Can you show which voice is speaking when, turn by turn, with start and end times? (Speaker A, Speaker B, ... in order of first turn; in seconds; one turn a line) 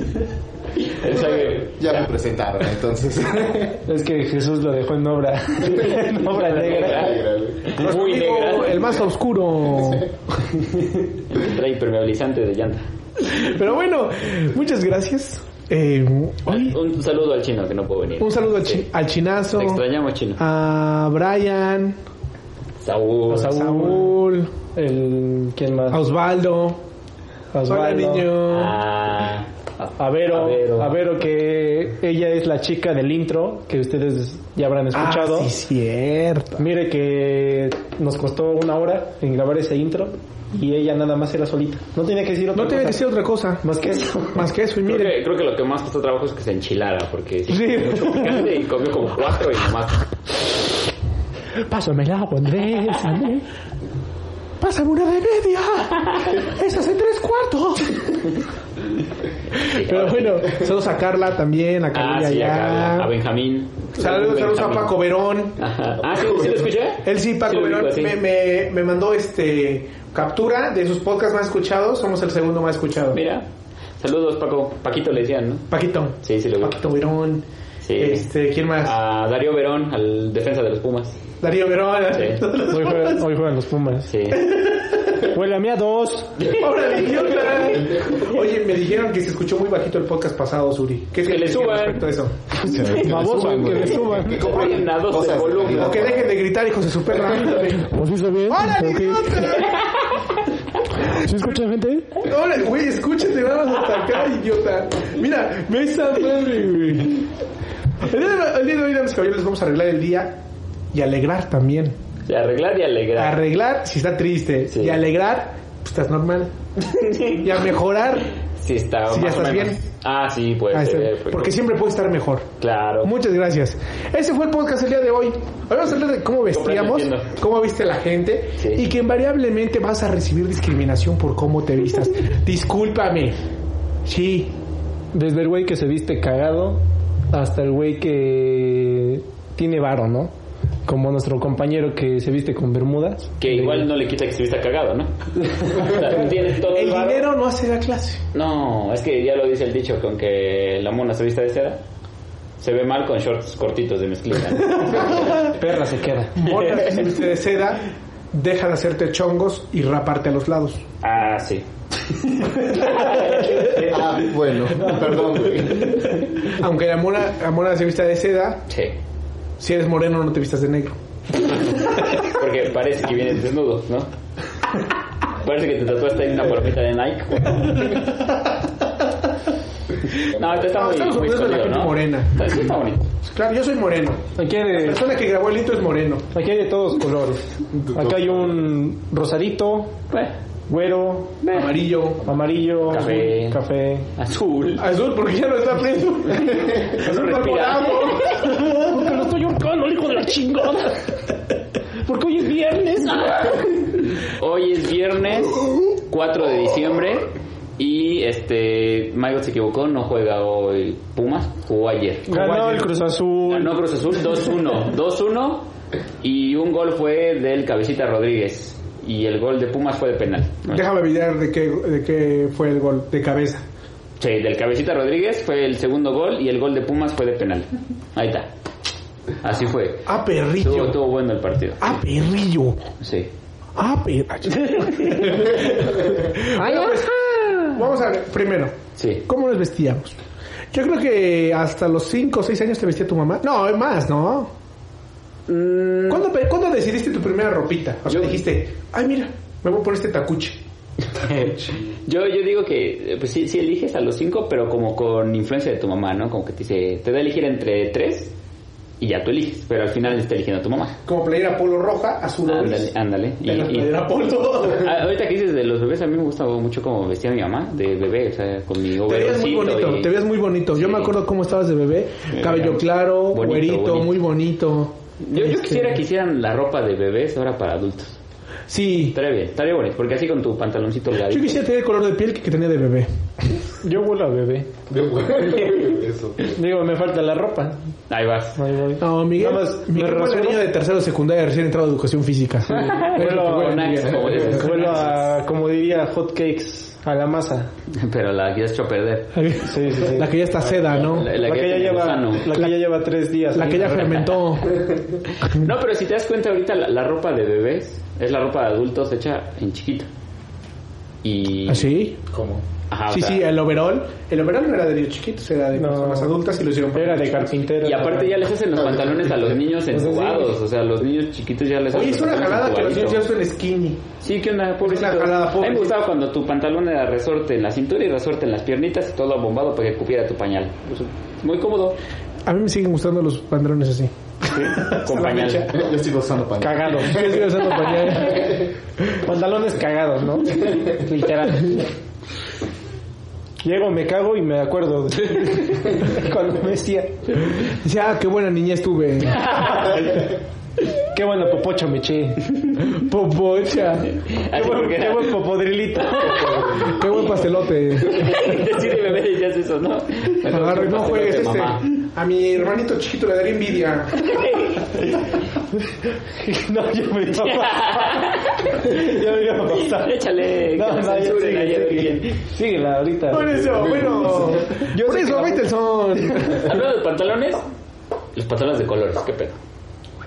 Speaker A: 0.8-2.1
Speaker B: 1.1-3.8
Speaker C: 3.8-7.1
Speaker A: 6.2-9.0
Speaker B: 6.7-7.7
Speaker D: 7.8-10.1
Speaker A: 11.3-12.8
Speaker D: 13.2-16.8
Speaker A: 16.5-18.9
Speaker D: 18.2-19.8
Speaker A: 19.5-20.4
Speaker D: 20.4-22.0
Speaker A: 22.8-23.6
Speaker C: 23.3-24.2
Speaker D: 23.4-24.5
Speaker C: 24.8-26.0
Speaker D: 25.9-26.8
Speaker C: 27.5-28.3
Speaker D: 27.6-28.8
Speaker A: 28.4-31.0
Speaker C: 30.0-35.5
Speaker D: 34.9-36.7
Speaker C: 36.6-43.1
Speaker D: 42.5-43.6
Speaker C: 43.6-44.5
Speaker D: 44.3-45.2
Speaker A: 44.9-50.1
Speaker D: 47.5-48.5
Speaker C: 51.6-53.4
Speaker D: 54.6-58.2
Speaker A: 59.5-60.6
Speaker D: 59.7-63.1
Speaker A: 61.9-64.9
Speaker D: 64.0-65.6
Speaker A: 65.6-68.2
Speaker B: 66.1-66.6
Speaker D: 67.0-73.2
Speaker A: 73.1-73.5
Speaker A: 74.0-75.7
Speaker D: 75.7-77.5
Speaker A: 76.2-76.8
Speaker A: 77.8-78.3
Speaker D: 78.0-79.0
Speaker A: 78.8-81.2
Speaker D: 81.4-83.3
Speaker A: 82.1-82.4
Speaker C: 82.7-84.1
Speaker A: 84.1-84.5
Speaker D: 84.3-85.2
Speaker C: 85.2-86.4
Speaker A: 86.4-87.7
Speaker D: 86.5-92.5
Speaker A: 91.2-92.1
Speaker B: 92.6-96.3
Speaker C: 92.6-94.7
Speaker A: 94.2-96.0
Speaker D: 95.7-99.9
Speaker B: 97.3-97.6
Speaker C: 98.0-99.3
Speaker D: 101.0-107.3
Speaker C: 101.1-102.1
Speaker D: 108.0-110.4
Speaker D: 110.9-112.0
Speaker A: 112.2-113.4
Speaker D: 113.1-116.5
Speaker A: 114.7-115.0
Speaker A: 116.8-117.6
Speaker D: 117.4-118.3
Speaker A: 118.6-121.6
Speaker D: 119.1-119.8
Speaker D: 120.7-122.5
Speaker A: 122.6-123.1
Speaker D: 123.0-133.4
Speaker A: 126.5-127.3
Speaker A: 128.6-128.9
Speaker D: 134.1-134.6
Speaker C: 135.1-140.3
Speaker C: 140.9-143.9
Speaker A: 143.4-147.3
Speaker D: 146.5-148.2
Speaker A: 148.3-151.8
Speaker A: 152.6-155.4
Speaker C: 155.0-156.5
Speaker D: 156.4-160.8
Speaker A: 161.0-161.6
Speaker C: 162.7-163.9
Speaker A: 162.8-163.6
Speaker B: 163.8-166.1
Speaker D: 166.4-168.6
Speaker A: 168.7-168.9
Speaker D: 169.6-171.0
Speaker A: 172.1-174.1
Speaker A: 175.4-177.9
Speaker A: 180.2-183.1
Speaker D: 180.5-182.4
Speaker D: 183.2-186.3
Speaker C: 184.4-185.1
Speaker C: 186.3-189.9
Speaker B: 187.7-188.6
Speaker C: 190.7-191.5
Speaker D: 191.5-192.4
Speaker C: 192.2-194.1
Speaker A: 192.9-193.6
Speaker A: 194.2-194.8
Speaker D: 194.8-198.9
Speaker A: 196.4-198.4
Speaker C: 198.4-201.1
Speaker C: 202.1-203.4
Speaker A: 203.1-212.8
Speaker C: 212.3-213.8
Speaker D: 212.3-212.7
Speaker A: 213.5-215.7
Speaker A: 216.2-220.9
Speaker D: 220.7-223.6
Speaker A: 224.2-228.5
Speaker A: 229.4-232.0
Speaker D: 230.1-231.0
Speaker D: 231.8-232.8
Speaker A: 233.0-233.3
Speaker D: 233.8-240.1
Speaker A: 234.6-235.6
Speaker A: 238.9-239.2
Speaker D: 240.7-244.5
Speaker A: 245.5-246.3
Speaker D: 246.1-250.6
Speaker A: 248.1-248.3
Speaker A: 251.3-258.3
Speaker A: 259.0-260.9
Speaker D: 261.1-262.9
Speaker A: 262.5-264.0
Speaker D: 263.4-265.0
Speaker A: 264.6-270.1
Speaker D: 269.1-276.0
Speaker A: 270.7-271.2
Speaker A: 272.3-274.2
Speaker A: 275.2-278.2
Speaker D: 278.7-279.2
Speaker A: 279.1-281.6
Speaker D: 281.3-283.1
Speaker C: 283.8-284.7
Speaker B: 284.9-286.4
Speaker C: 286.4-287.8
Speaker A: 288.1-288.6
Speaker C: 288.6-290.7
Speaker D: 289.0-294.9
Speaker C: 292.7-297.7
Speaker A: 292.7-295.4
Speaker B: 294.0-294.6
Speaker A: 297.9-299.4
Speaker D: 299.3-301.3
Speaker C: 299.6-300.3
Speaker B: 300.6-301.1
Speaker A: 301.0-302.6
Speaker C: 301.3-304.2
Speaker D: 302.5-302.8
Speaker D: 303.5-304.8
Speaker A: 303.9-304.4
Speaker A: 305.4-310.1
Speaker A: 311.2-311.9
Speaker D: 311.7-312.2
Speaker B: 312.3-312.6
Speaker A: 312.9-313.5
Speaker D: 313.1-317.6
Speaker C: 315.8-316.4
Speaker C: 316.9-318.4
Speaker A: 317.8-323.2
Speaker B: 318.8-319.5
Speaker C: 319.9-320.5
Speaker D: 321.9-324.0
Speaker A: 324.2-332.0
Speaker D: 324.8-326.0
Speaker D: 332.5-335.8
Speaker A: 334.5-335.7
Speaker B: 335.7-337.5
Speaker C: 336.6-337.5
Speaker D: 337.0-338.7
Speaker B: 338.2-338.6
Speaker C: 339.2-341.9
Speaker C: 343.6-347.4
Speaker D: 347.6-350.0
Speaker A: 349.4-350.0
Speaker C: 351.1-352.4
Speaker D: 352.8-354.1
Speaker A: 354.1-357.0
Speaker C: 354.5-356.6
Speaker B: 356.2-357.0
Speaker D: 356.8-358.4
Speaker A: 358.0-361.9
Speaker D: 360.4-364.3
Speaker A: 364.2-365.4
Speaker C: 366.3-373.5
Speaker A: 367.4-369.1
Speaker A: 369.7-372.4
Speaker D: 373.3-376.9
Speaker B: 373.5-374.7
Speaker C: 374.8-376.5
Speaker A: 376.5-377.6
Speaker A: 378.4-379.6